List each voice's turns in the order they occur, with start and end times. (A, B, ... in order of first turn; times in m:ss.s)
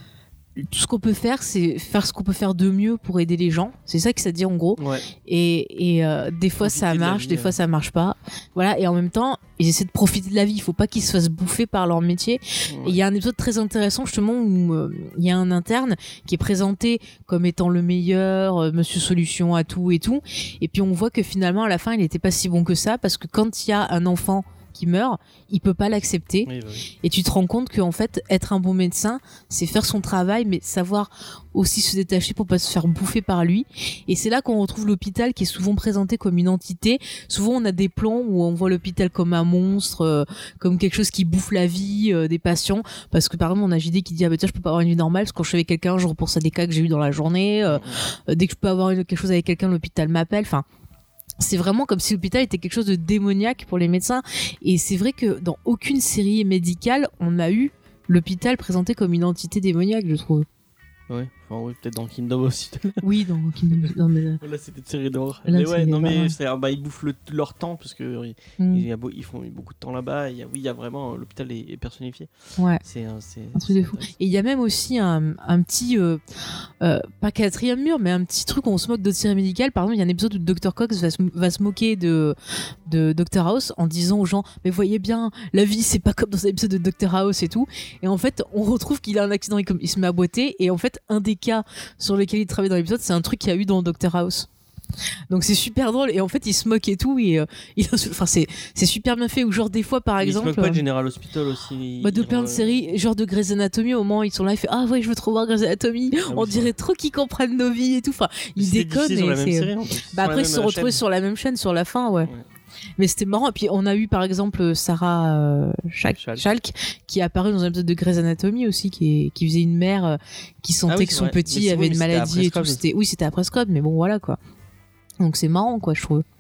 0:00.6-0:26.5 A
0:04.8-0:05.1 B
0:06.6-0:07.6 B
0:12.7-0:13.0 B
0:26.4-0:26.9 B
0:27.0-0:50.6 A
0:47.7-0:48.0 B
0:51.4-1:00.4 A
1:01.1-1:03.0 B
1:03.0-1:04.4 A
1:03.7-1:12.3 B
1:05.5-1:06.3 A
1:08.6-1:08.9 A
1:12.6-1:12.8 A
1:12.8-1:14.1 B
1:13.6-1:16.2 A
1:16.8-1:34.5 A
1:35.3-1:40.8 A
1:40.2-1:42.9 B
1:42.0-1:52.3 A
1:46.3-1:46.7 B
1:48.6-1:51.0 B
1:53.0-2:04.4 A
1:56.1-1:56.4 B
2:00.9-2:02.8 B
2:05.2-2:06.2 A